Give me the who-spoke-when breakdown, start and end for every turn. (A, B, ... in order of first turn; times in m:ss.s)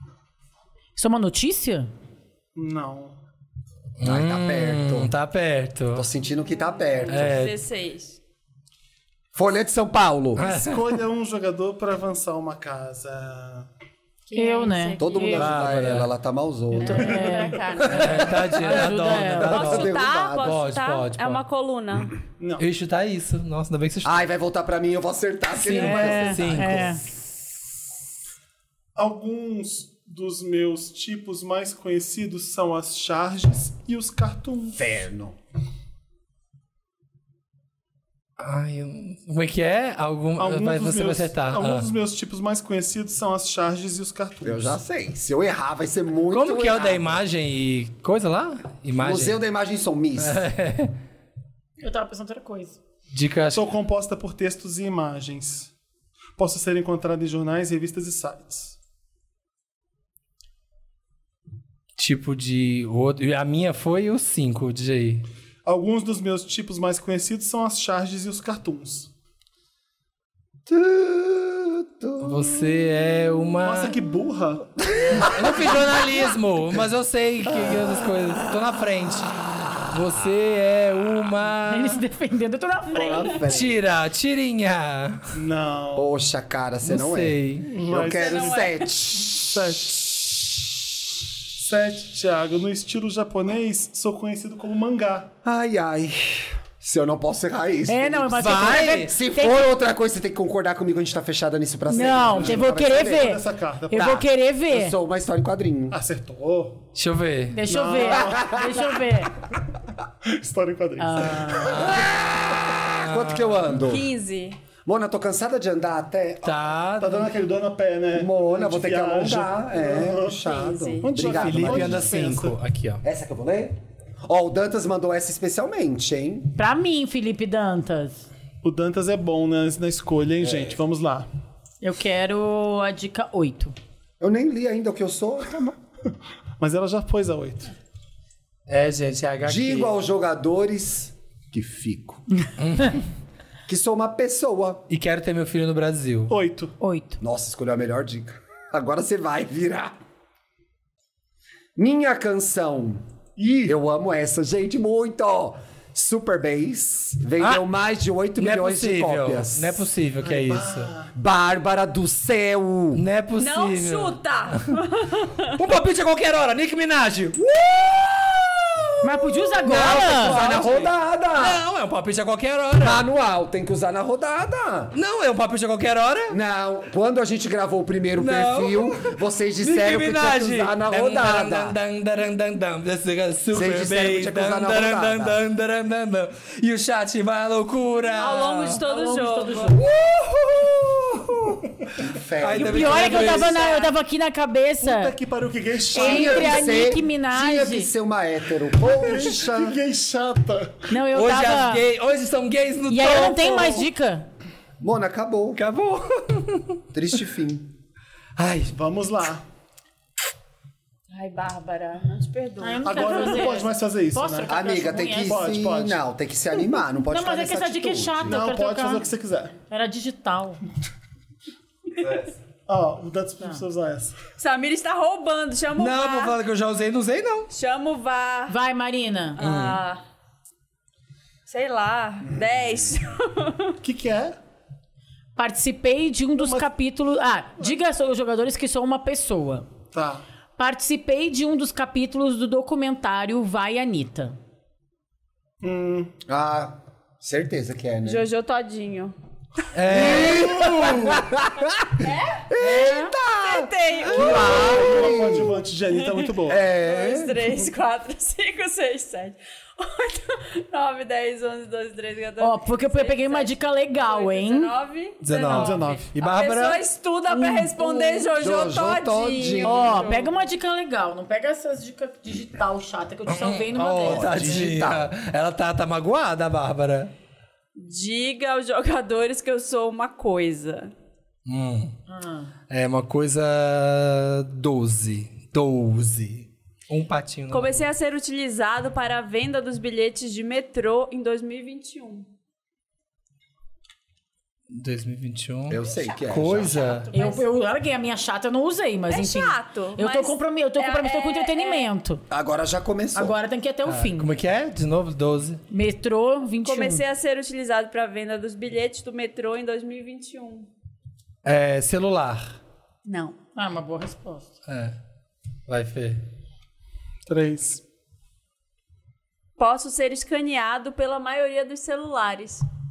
0:01.0-0:01.9 A
0:02.5-0:03.2 B
0:04.0-0:06.1 C
0:04.0-0:05.1 D
0:05.9-0:07.4 D
0:06.9-0:08.2 E
0:07.1-0:07.6 C
0:09.3-0:10.5 D
0:10.4-0:10.9 C
0:10.4-0:13.7 B
0:14.3-0:15.6 E
0:14.3-0:15.4 A
0:15.0-0:17.3 D
0:15.4-0:16.1 C
0:16.7-0:18.7 E
0:16.8-0:19.7 A
0:17.9-0:21.4 C
0:19.4-0:22.1 E
0:19.4-0:20.5 D
0:22.4-0:22.7 B
0:22.6-0:24.3 C
0:24.0-0:26.9 D
0:25.7-0:27.4 C
0:25.7-0:27.0 A
0:25.7-0:26.2 B
0:28.9-0:34.8 B
0:34.7-0:35.4 D
0:38.4-0:41.9 C
0:40.4-0:44.8 B
0:44.4-0:47.2 D
0:46.3-0:49.4 C
0:49.0-0:50.4 D
0:50.2-0:50.9 C
0:51.8-0:52.8 A
0:53.1-0:53.7 C
0:53.5-0:55.7 B
0:56.4-0:58.7 B
1:02.0-1:05.2 C
1:05.6-1:09.1 B
1:10.7-1:12.9 D
1:12.2-1:14.0 C
1:13.6-1:14.7 B
1:14.8-1:16.2 D
1:15.2-1:22.0 C
1:21.7-1:23.4 A
1:22.9-1:23.8 D
1:23.4-1:25.3 C
1:25.3-1:26.1 B
1:25.9-1:30.3 D
1:26.8-1:27.7 C
1:27.6-1:28.7 B
1:27.9-1:28.9 E
1:29.3-1:30.1 B
1:31.5-1:35.3 B
1:35.4-1:43.4 D
1:37.9-1:39.6 A
1:38.4-1:39.1 C
1:41.9-1:44.9 A
1:42.3-1:44.2 B
1:43.9-1:46.0 D
1:45.9-1:46.9 B
1:46.9-1:47.6 C
1:47.5-1:49.3 A
1:47.6-1:48.8 B
1:48.0-1:49.0 D
1:50.2-1:52.0 B
1:51.0-1:51.8 A
1:51.7-1:52.2 C
1:53.0-1:53.7 C
1:53.0-1:54.0 D
1:53.8-1:54.6 E
1:54.8-1:56.6 D
1:56.4-1:57.3 C
1:57.0-2:00.4 B
1:58.1-2:02.5 D
2:00.4-2:01.1 E
2:01.0-2:02.5 B
2:01.2-2:03.0 C
2:03.0-2:06.5 D
2:06.6-2:08.2 A
2:08.6-2:11.3 B
2:10.4-2:10.7 D
2:11.8-2:13.7 A
2:14.2-2:15.7 D
2:16.6-2:17.7 B
2:18.7-2:19.9 C
2:19.4-2:22.2 D
2:22.6-2:23.0 C
2:23.7-2:24.8 D
2:24.9-2:26.3 C
2:26.3-2:26.7 B
2:26.8-2:27.2 A
2:27.2-2:29.9 D
2:31.8-2:39.8 D
2:33.4-2:33.7 B
2:38.4-2:40.9 C
2:40.2-2:41.1 B
2:41.1-2:43.0 D
2:42.9-2:44.6 C
2:43.4-2:45.5 E
2:45.5-2:47.4 C
2:47.4-2:48.3 D
2:49.0-2:50.4 A
2:49.6-2:53.0 C
2:49.6-2:51.6 D
2:52.8-2:54.9 D
2:54.9-2:56.4 C
2:56.3-3:01.8 D
2:58.2-3:08.8 C
3:03.5-3:05.4 D
3:08.2-3:09.7 E
3:08.8-3:09.8 A
3:09.8-3:11.2 C
3:09.8-3:11.4 D
3:12.0-3:13.3 D
3:12.4-3:13.6 C
3:12.5-3:15.1 A
3:13.0-3:13.9 E
3:14.8-3:16.8 B
3:15.9-3:17.9 A
3:15.9-3:19.8 D
3:18.8-3:20.9 B
3:20.9-3:21.8 A
3:21.1-3:23.9 C
3:22.9-3:24.3 A
3:24.8-3:25.6 D
3:25.5-3:26.8 C
3:26.9-3:27.7 D
3:28.4-3:28.7 C
3:28.7-3:29.4 B
3:31.1-3:33.5 E
3:32.6-3:35.5 A
3:32.8-3:34.6 B
3:34.4-3:38.4 D
3:35.1-3:36.0 B
3:37.1-3:39.1 A
3:38.3-3:39.5 B
3:39.7-3:40.6 A
3:42.7-3:44.1 B
3:44.4-3:46.4 E
3:45.8-3:47.5 C
3:47.5-3:48.5 E
3:48.5-3:49.4 A
3:49.4-3:50.0 E
3:49.4-3:49.8 C
3:51.4-3:53.8 E
3:53.8-3:54.4 B
3:55.4-3:59.6 A
3:56.4-3:56.7 B
3:59.9-4:00.2 B
4:00.6-4:04.4 A
4:05.6-4:06.1 B
4:06.3-4:08.3 D
4:08.0-4:09.1 E
4:09.7-4:11.2 C
4:09.9-4:15.6 D
4:12.0-4:12.5 E
4:12.6-4:13.1 A
4:13.4-4:15.2 E
4:14.1-4:15.0 C
4:14.2-4:16.6 B
4:16.4-4:17.4 D
4:16.6-4:30.4 E
4:22.4-4:24.7 A
4:25.2-4:26.8 C
4:25.4-4:26.1 B
4:28.2-4:29.8 D
4:29.6-4:34.8 A
4:33.3-4:37.1 C
4:34.0-4:35.1 D
4:37.7-4:40.9 E
4:41.4-4:41.9 C
4:42.1-4:42.5 A
4:42.7-4:47.8 C
4:47.5-4:52.3 E
4:54.7-4:57.1 C
4:55.7-4:56.8 D
4:56.7-4:57.4 E
4:57.1-5:02.2 A
4:59.1-5:01.9 E
5:02.3-5:03.4 D
5:03.1-5:04.3 A
5:03.8-5:05.6 C
5:05.7-5:07.0 A
5:06.6-5:10.7 E
5:11.4-5:12.6 C
5:13.0-5:13.4 E
5:13.5-5:14.5 A
5:14.7-5:15.0 C
5:15.7-5:16.2 C
5:17.3-5:17.8 B
5:19.6-5:22.6 E